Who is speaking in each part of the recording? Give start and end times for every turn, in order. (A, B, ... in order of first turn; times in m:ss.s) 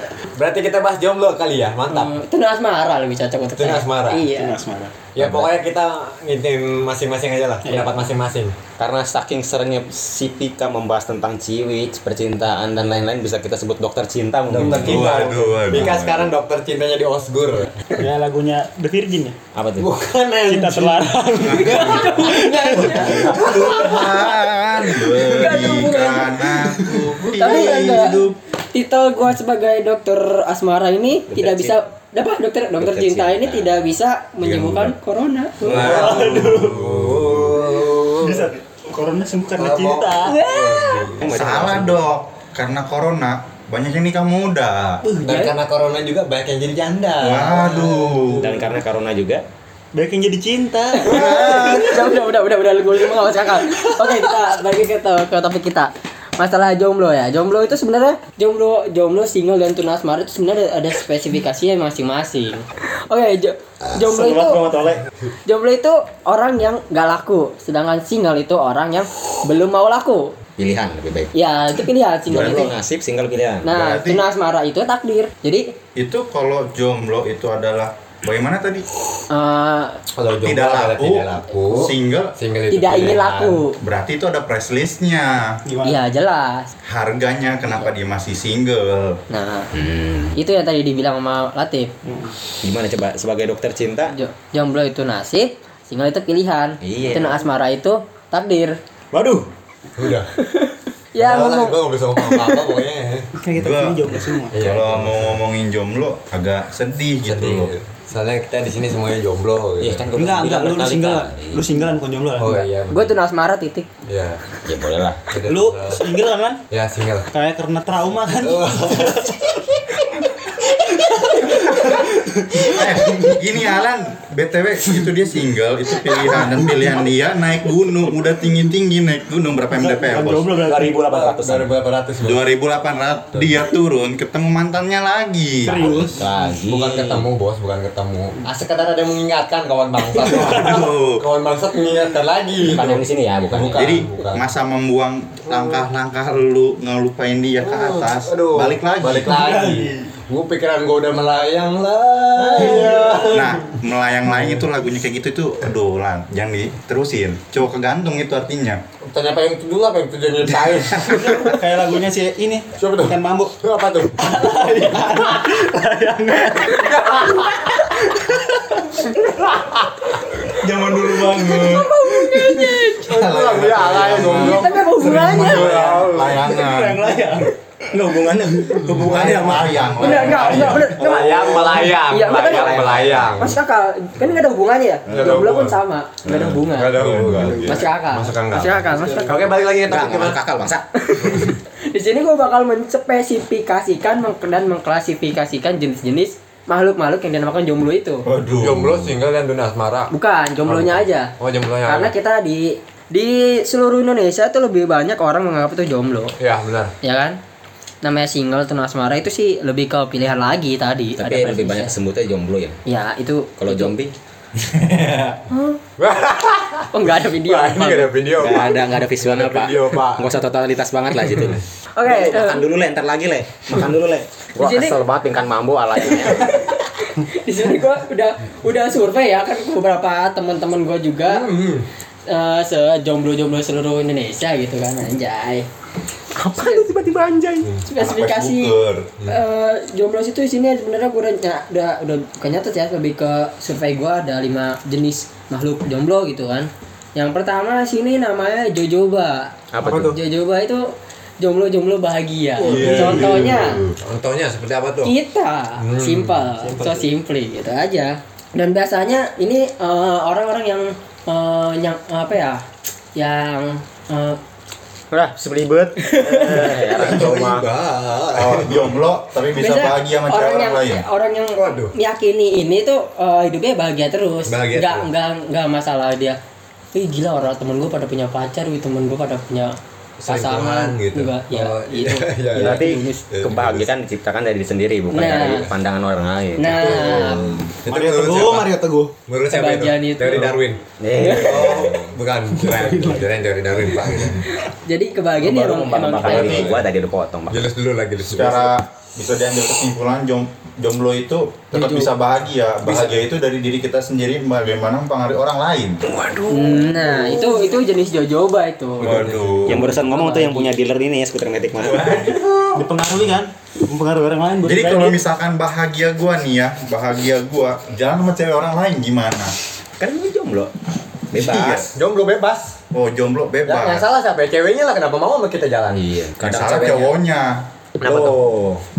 0:00.3-0:02.2 A
0:01.9-0:04.6 B
0:03.5-0:04.2 A
0:04.3-0:05.0 C
0:05.1-0:08.5 A
0:05.2-0:05.5 D
0:07.6-0:08.0 C
0:08.8-0:15.0 D
0:14.5-0:17.9 A
0:14.6-0:16.3 E
0:18.0-0:19.4 C
0:19.5-0:19.9 D
0:19.8-0:21.1 A
0:20.5-0:24.1 C
0:21.4-0:22.3 E
0:21.5-0:24.3 B
0:23.0-0:28.3 E
0:25.2-0:26.3 B
0:26.6-0:27.7 C
0:27.4-0:36.0 B
0:31.3-0:31.8 D
0:32.8-0:33.7 D
0:34.4-0:34.9 A
0:35.6-0:37.6 E
0:35.7-0:38.5 A
0:35.8-0:36.8 C
0:37.7-0:40.4 C
0:39.6-0:41.5 A
0:40.2-0:41.2 B
0:41.2-0:42.0 D
0:41.2-0:45.0 E
0:45.2-0:48.5 A
0:45.2-0:45.5 B
0:47.2-0:48.6 E
0:48.4-0:49.4 D
0:49.9-0:52.2 C
0:51.0-1:04.6 B
0:51.1-0:51.8 E
1:03.8-1:05.0 D
1:05.4-1:10.3 B
1:10.6-1:11.3 D
1:11.3-1:12.7 B
1:12.3-1:13.7 D
1:13.6-1:15.7 B
1:13.7-1:14.2 E
1:16.0-1:18.8 E
1:19.3-1:20.0 B
1:20.1-1:23.6 A
1:20.4-1:22.3 E
1:22.7-1:23.7 B
1:23.8-1:25.6 E
1:25.6-1:26.0 C
1:25.8-1:26.7 B
1:26.8-1:29.2 E
1:29.3-1:29.7 B
1:29.7-1:30.4 D
1:30.4-1:31.9 B
1:32.0-1:32.3 C
1:32.6-1:34.1 D
1:34.1-1:38.8 B
1:36.8-1:37.5 D
1:39.1-1:39.4 D
1:40.0-1:40.3 A
1:40.4-1:42.7 B
1:41.1-1:43.2 A
1:43.4-1:44.6 C
1:43.5-1:47.7 E
1:44.5-1:45.4 A
1:47.2-1:50.1 A
1:49.8-1:51.7 D
1:50.1-1:52.6 C
1:52.4-1:53.1 A
1:52.9-1:53.9 B
1:54.0-1:54.4 A
1:54.6-1:55.2 D
1:55.3-1:56.0 A
1:55.4-1:56.6 C
1:56.7-1:57.3 A
1:57.3-2:03.5 C
1:58.4-1:59.2 A
2:02.6-2:10.5 E
2:04.8-2:05.1 C
2:06.0-2:07.1 C
2:08.3-2:08.6 C
2:09.7-2:11.0 C
2:10.6-2:11.7 D
2:11.0-2:12.4 A
2:12.2-2:16.2 E
2:13.3-2:13.7 A
2:15.6-2:16.2 C
2:15.8-2:17.3 D
2:16.6-2:24.5 A
2:20.1-2:20.8 C
2:20.2-2:21.2 E
2:22.6-2:23.8 D
2:23.5-2:29.4 E
2:25.5-2:25.8 A
2:27.6-2:33.6 A
2:29.2-2:30.1 C
2:32.4-2:33.6 C
2:33.3-2:38.8 E
2:39.0-2:41.5 A
2:40.7-2:41.2 E
2:41.0-2:43.5 C
2:42.8-2:44.4 A
2:44.2-2:49.0 C
2:46.8-2:47.2 A
2:50.5-2:57.4 E
2:51.3-2:53.2 B
2:53.0-2:56.5 A
2:54.2-2:55.8 B
2:55.6-3:01.8 C
2:58.8-3:01.2 E
3:00.0-3:06.9 B
3:00.7-3:03.6 A
3:02.3-3:03.5 D
3:05.1-3:05.8 A
3:06.2-3:06.6 D
3:06.7-3:10.4 A
3:07.0-3:07.7 E
3:07.6-3:09.5 B
3:09.8-3:10.8 D
3:11.0-3:18.2 B
3:11.2-3:11.5 A
3:18.2-3:19.1 E
3:18.6-3:20.1 A
3:20.1-3:21.3 B
3:20.6-3:22.1 A
3:21.8-3:26.4 B
3:26.4-3:26.9 A
3:27.0-3:27.4 B
3:28.0-3:31.9 B
3:31.2-3:32.8 D
3:32.8-3:33.9 B
3:33.6-3:34.1 D
3:34.6-3:35.4 E
3:35.5-3:35.8 B
3:36.0-3:40.3 A
3:36.9-3:38.1 B
3:38.4-3:46.6 D
3:38.4-3:38.7 E
3:41.2-3:41.5 A
3:42.0-3:42.6 B
3:44.6-3:45.0 B
3:46.0-3:51.5 B
3:51.2-3:51.9 A
3:52.3-3:55.6 B
3:56.4-3:57.7 C
3:56.6-3:56.8 B
3:57.8-3:58.7 B
3:58.0-3:59.1 E
3:59.2-4:13.8 B
4:09.7-4:10.2 D
4:09.8-4:10.2 A
4:12.6-4:14.0 E
4:12.7-4:13.5 A
4:14.0-4:15.1 A
4:15.0-4:22.6 B
4:15.8-4:16.7 A
4:23.1-4:24.4 B
4:25.1-4:27.7 D
4:26.0-4:26.8 B
4:27.0-4:28.9 A
4:28.3-4:31.0 E
4:29.6-4:36.4 B
4:31.5-4:31.9 A
4:34.5-4:35.1 A
4:36.9-4:43.2 B
4:40.2-4:43.9 A
4:42.6-4:47.2 D
4:45.1-4:45.7 B
4:45.2-4:45.5 A
4:46.6-4:47.6 B
4:46.7-4:48.7 A
4:47.8-4:49.1 C
4:49.3-4:50.8 A
4:49.5-4:50.6 B
4:51.0-4:52.0 D
4:51.2-4:51.8 B
4:51.4-4:54.4 A
4:52.6-4:53.2 C
4:52.7-4:53.0 E
4:53.8-4:54.4 C
4:54.6-4:56.6 B
4:55.4-4:57.7 D
4:56.2-4:56.7 E
4:56.2-4:56.9 A
4:57.5-4:58.7 A
4:58.2-5:06.0 E
5:01.7-5:02.1 B
5:02.8-5:03.3 A
5:06.2-5:06.8 D
5:06.5-5:09.2 B
5:09.0-5:09.8 A
5:09.0-5:09.9 E
5:09.6-5:12.3 D
5:09.8-5:10.7 B
5:11.8-5:13.3 E
5:12.7-5:15.2 C
5:14.6-5:19.6 E
5:20.0-5:20.7 D
5:21.3-5:21.9 D
5:21.3-5:22.0 E
5:21.9-5:22.8 A
5:22.9-5:24.0 E
5:23.6-5:26.1 A
5:25.9-5:27.1 D
5:26.4-5:27.6 E
5:28.0-5:28.4 A
5:28.0-5:28.8 D